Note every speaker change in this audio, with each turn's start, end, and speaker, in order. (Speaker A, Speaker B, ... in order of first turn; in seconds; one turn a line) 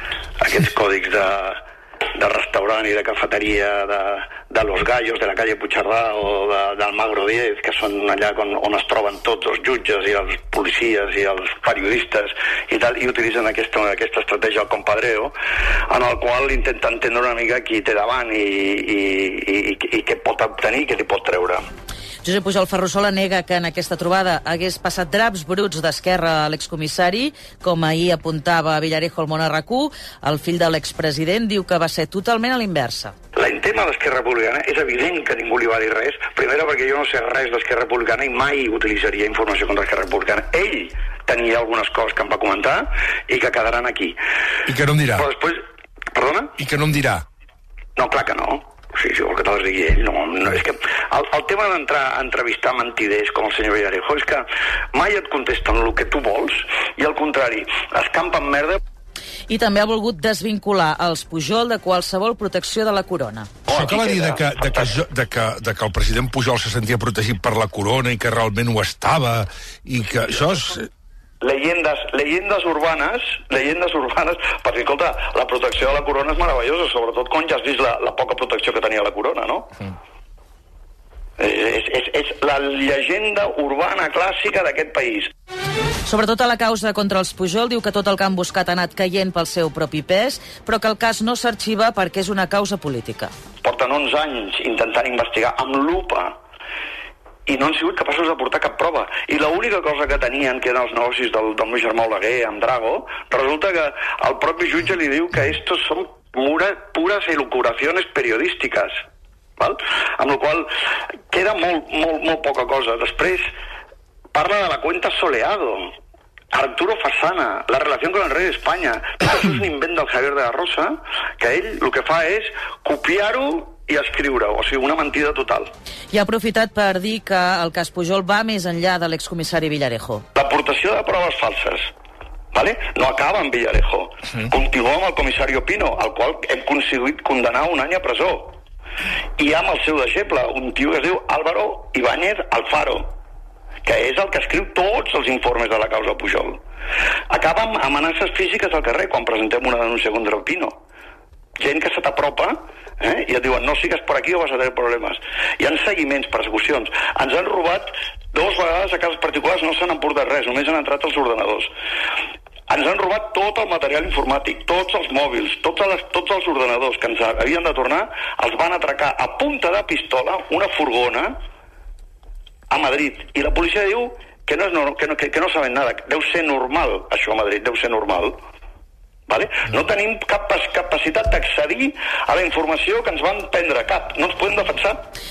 Speaker A: 0.4-1.6
Speaker A: 2.1-15.3
Speaker A: 15.9-21.6
Speaker B: 22.2-33.1
Speaker A: 33.3-44.2
Speaker C: 44.7-45.2
Speaker A: 45.1-45.6
Speaker A: 46.1-46.6
Speaker C: 46.6-47.2
Speaker A: 48.0-58.8
Speaker B: 59.5-63.5
Speaker A: 63.7-64.9
Speaker C: 63.7-70.8
Speaker A: 71.4-79.8
Speaker A: 81.4-85.3
Speaker B: 86.0-93.3
Speaker A: 93.6-96.4
Speaker A: 97.5-108.9
Speaker A: 109.6-110.7
Speaker A: 111.3-113.5
Speaker A: 114.3-115.9
Speaker A: 116.5-125.7
Speaker B: 126.1-130.2
Speaker A: 130.3-131.9
Speaker A: 132.5-138.6
Speaker A: 139.4-143.1
Speaker A: 143.8-146.6
Speaker A: 147.3-150.8
Speaker A: 151.6-161.7
Speaker A: 162.7-171.3
Speaker A: 172.7-178.4
Speaker A: 179.3-185.1